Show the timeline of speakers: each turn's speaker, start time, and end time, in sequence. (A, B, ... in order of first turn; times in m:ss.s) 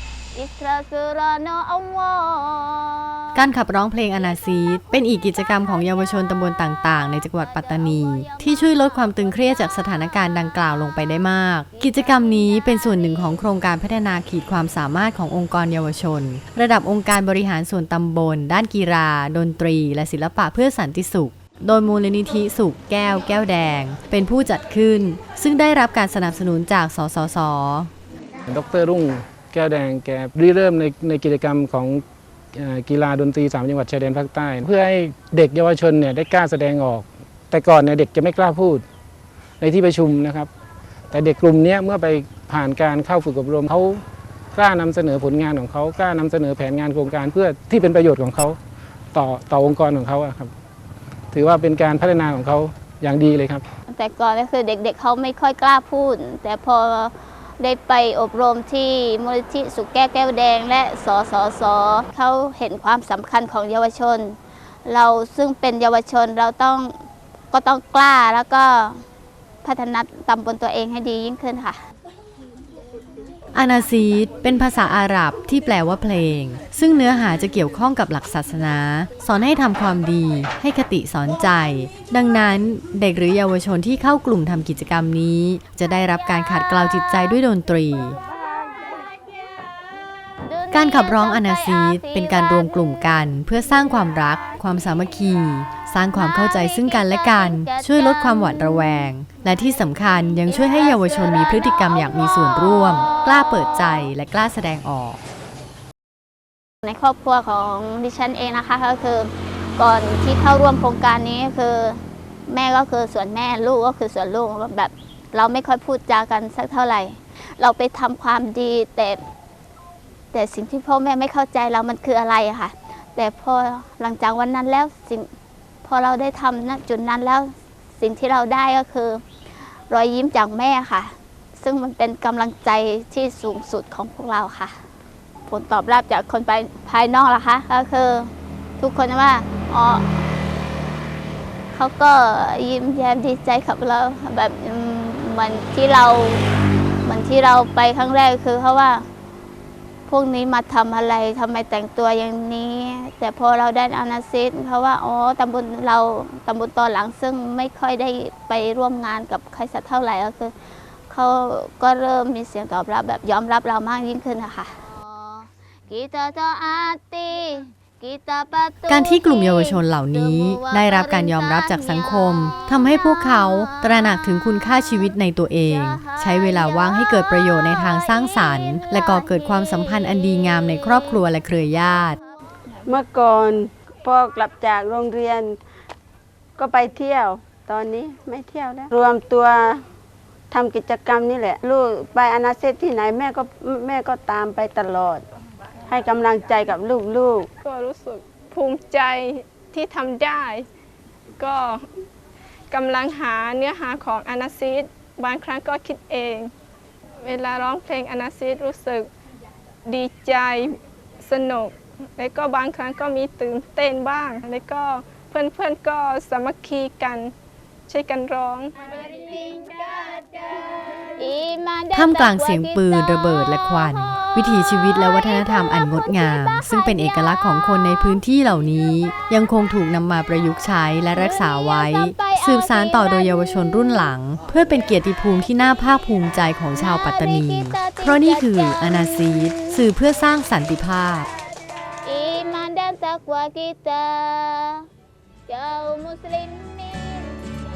0:00.3-0:03.4 A
0:03.3-0:27.9 B
0:07.1-0:10.5 A
0:11.7-0:13.3 A
0:28.5-0:32.0 C
0:32.5-0:38.8 C
0:39.6-0:40.5 C
0:41.1-0:44.0 C
0:44.5-0:48.6 C
0:49.1-0:50.5 C
0:51.3-0:53.6 C
0:53.9-1:06.9 A
1:07.5-1:09.0 A
1:09.6-1:11.8 A
1:13.5-1:28.2 B
1:30.4-1:32.8 A
1:30.7-1:45.2 B
1:36.1-1:38.9 A
1:40.4-1:44.1 A
1:46.8-1:59.2 A
2:00.3-2:05.3 A
2:05.8-2:09.2 A
2:09.9-2:14.8 A
2:15.5-2:20.0 A
2:21.7-2:26.4 A
2:27.0-2:29.0 A
2:30.1-2:40.6 A
2:41.1-2:54.5 A
2:48.9-3:02.2 B
2:55.6-3:01.2 A
3:02.8-3:05.6 D
3:06.6-3:09.8 D
3:10.5-3:15.2 D
3:15.9-3:17.5 D
3:17.6-3:20.6 E
3:21.4-3:21.8 E
3:22.7-3:26.5 E
3:27.2-3:29.1 E
3:29.8-3:37.3 E
3:37.9-3:38.7 E
3:39.2-3:47.9 A
3:41.9-4:01.3 B
3:51.2-3:53.8 A
3:56.7-3:59.8 A
4:02.0-4:04.8 A
4:05.5-4:07.3 A